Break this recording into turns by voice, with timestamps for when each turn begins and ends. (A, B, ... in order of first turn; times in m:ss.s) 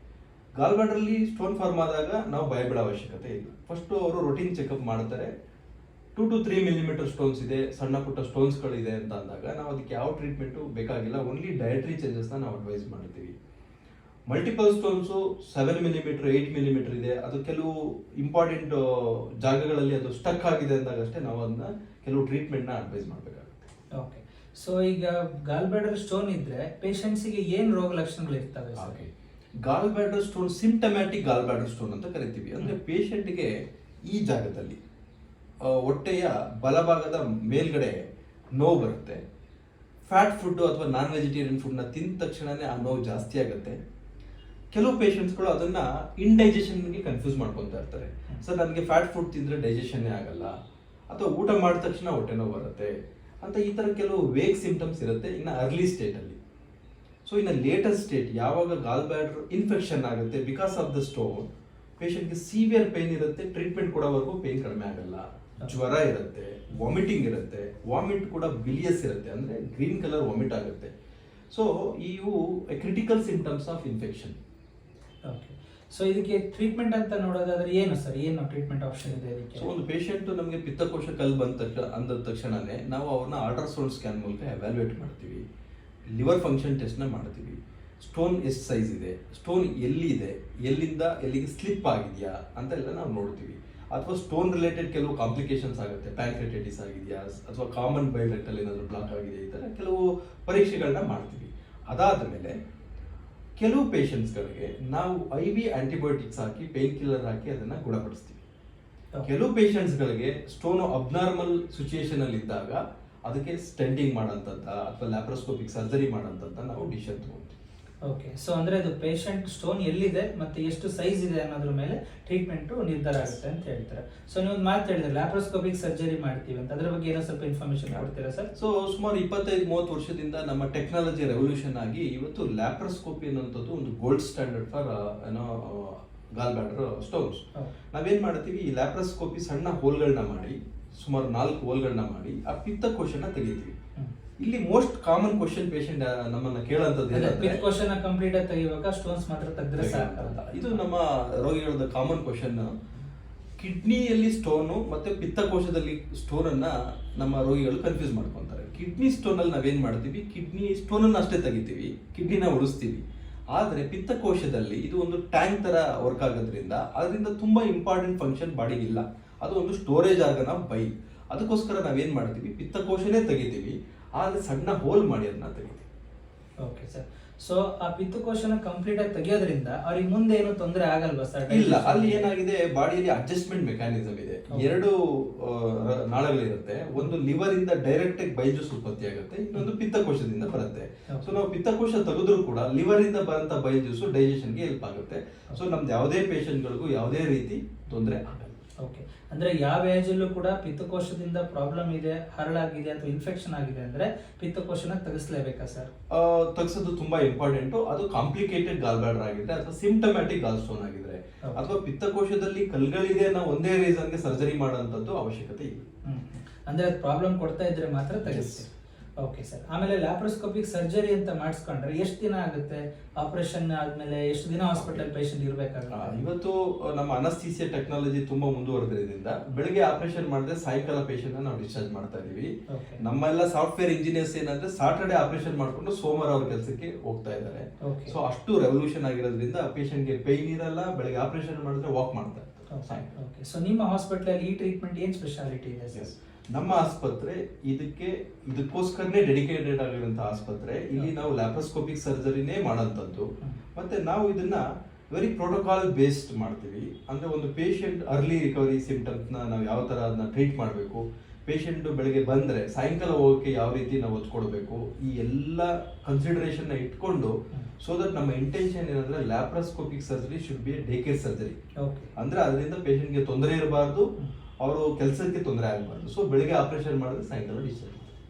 0:00.6-0:05.3 A
0:06.1-0:13.3 A
0:14.3-0:23.6 A
0:23.9-0:29.0 B
0:28.8-0:29.1 A
0:29.6-0:33.5 A
0:34.0-0:34.8 A
0:35.6-0:39.2 A
0:40.0-0:43.8 A
0:44.7-0:50.5 A
0:51.1-0:56.4 A
0:57.2-1:01.4 A
1:02.0-1:10.9 A
1:11.5-1:14.4 A
1:15.2-1:19.7 B
1:19.6-1:25.4 A
1:26.1-1:42.6 A
1:43.6-1:48.4 A
1:49.2-1:57.5 A
1:58.0-2:08.5 B
2:07.9-2:23.7 A
2:24.4-2:27.6 A
2:27.1-2:30.8 B
2:29.8-2:32.7 A
2:33.6-2:43.0 A
2:43.5-2:55.8 A
2:56.6-3:02.3 B
3:01.5-3:18.6 A
3:11.1-3:11.4 B
3:18.8-3:25.9 B
3:26.1-3:35.8 A
3:31.4-3:31.8 B
3:36.0-3:46.2 B
3:38.2-3:38.6 A
3:44.7-3:45.0 A
3:45.9-4:03.1 A
3:52.7-3:53.0 B
3:57.8-3:58.2 B
4:02.7-4:06.1 B
4:05.9-4:31.6 A
4:31.8-4:32.1 B
4:32.2-4:34.1 A
4:34.6-4:38.1 A